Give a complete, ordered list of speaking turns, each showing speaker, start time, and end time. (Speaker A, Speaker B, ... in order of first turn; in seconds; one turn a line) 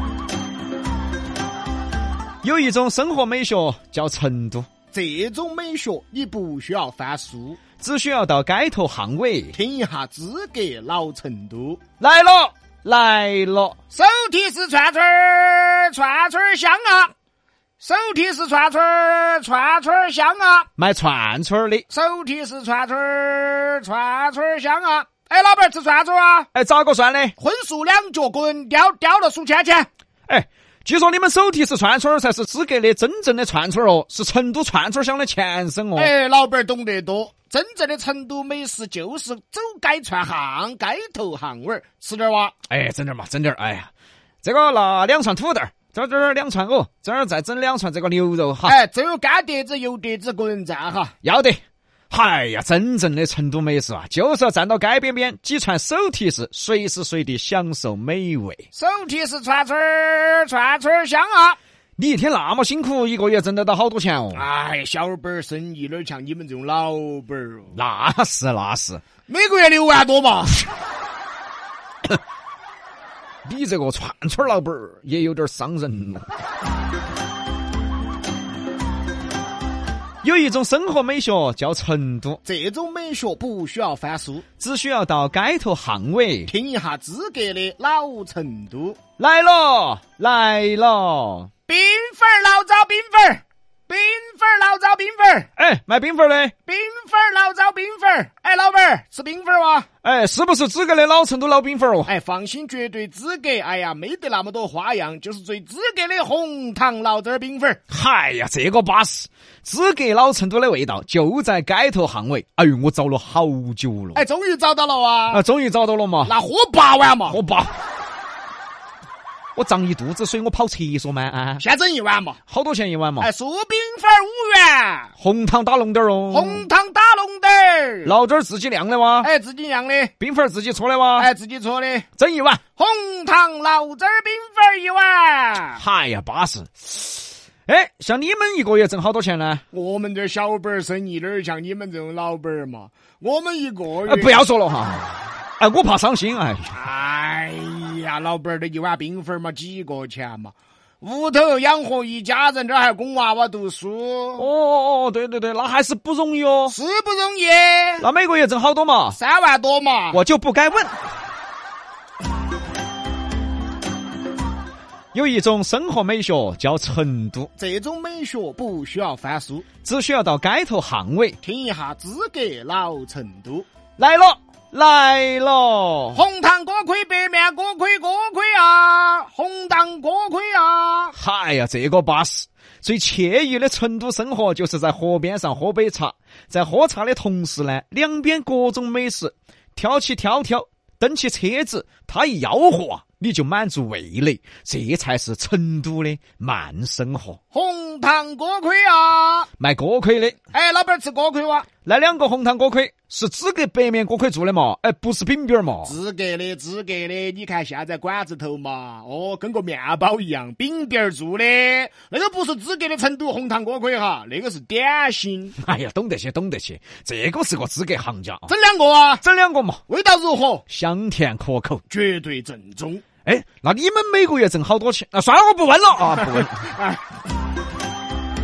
Speaker A: 2.4-4.7
Speaker B: 4.9-7.6
Speaker A: 7.8-9.6
Speaker B: 9.5-11.8
Speaker A: 12.0-13.8
Speaker B: 13.9-17.1
Speaker B: 17.8-20.7
Speaker A: 20.8-21.9
Speaker B: 21.9-26.5
Speaker A: 26.5-27.4
Speaker B: 27.4-29.9
Speaker A: 30.3-36.1
Speaker B: 36.0-42.5
Speaker A: 42.7-43.9
Speaker A: 44.4-48.8
Speaker B: 48.6-51.1
Speaker A: 51.2-58.6
Speaker B: 58.7-61.6
Speaker A: 62.0-64.5
Speaker B: 64.3-67.8
Speaker A: 67.7-69.0
Speaker B: 69.3-70.8
Speaker A: 73.5-76.3
Speaker A: 80.2-82.4
Speaker B: 82.5-84.4
Speaker A: 84.6-86.5
Speaker B: 86.5-89.0
Speaker A: 89.2-91.5
Speaker B: 91.7-95.5
Speaker A: 95.6-96.5
Speaker B: 96.7-99.9
Speaker A: 100.0-102.1
Speaker B: 102.1-107.8
Speaker A: 107.9-114.2
Speaker B: 114.2-115.4
Speaker A: 115.3-116.3
Speaker B: 116.2-117.4
Speaker A: 117.3-117.7
Speaker A: 119.5-121.7
Speaker B: 121.6-122.4
Speaker A: 122.5-123.3
Speaker B: 123.2-125.1
Speaker A: 125.2-126.7
Speaker B: 126.3-128.2
Speaker A: 128.1-129.3
Speaker B: 129.2-130.1
Speaker A: 130.2-131.3
Speaker B: 131.2-132.1
Speaker A: 132.2-132.6
Speaker B: 132.8-135.8
Speaker A: 135.8-139.6
Speaker B: 139.7-144.4
Speaker A: 144.1-146.7
Speaker B: 146.7-154.5
Speaker A: 154.4-156.8
Speaker B: 156.7-158.1
Speaker A: 158.0-159.2
Speaker B: 159.1-160.2
Speaker A: 160.1-160.9
Speaker A: 165.1-167.5
Speaker B: 167.6-169.7
Speaker A: 169.8-171.4
Speaker B: 171.4-173.7
Speaker A: 174.0-176.2
Speaker B: 176.1-181.2
Speaker A: 181.2-197.4
Speaker B: 197.5-199.5
Speaker A: 199.6-200.4
Speaker B: 200.5-201.7
Speaker A: 201.8-205.9
Speaker B: 205.8-215.6
Speaker A: 215.6-218.5
Speaker B: 218.5-219.2
Speaker A: 219.2-219.8
Speaker B: 219.9-220.6
Speaker A: 220.7-221.8
Speaker B: 221.9-223.0
Speaker A: 223.2-226.8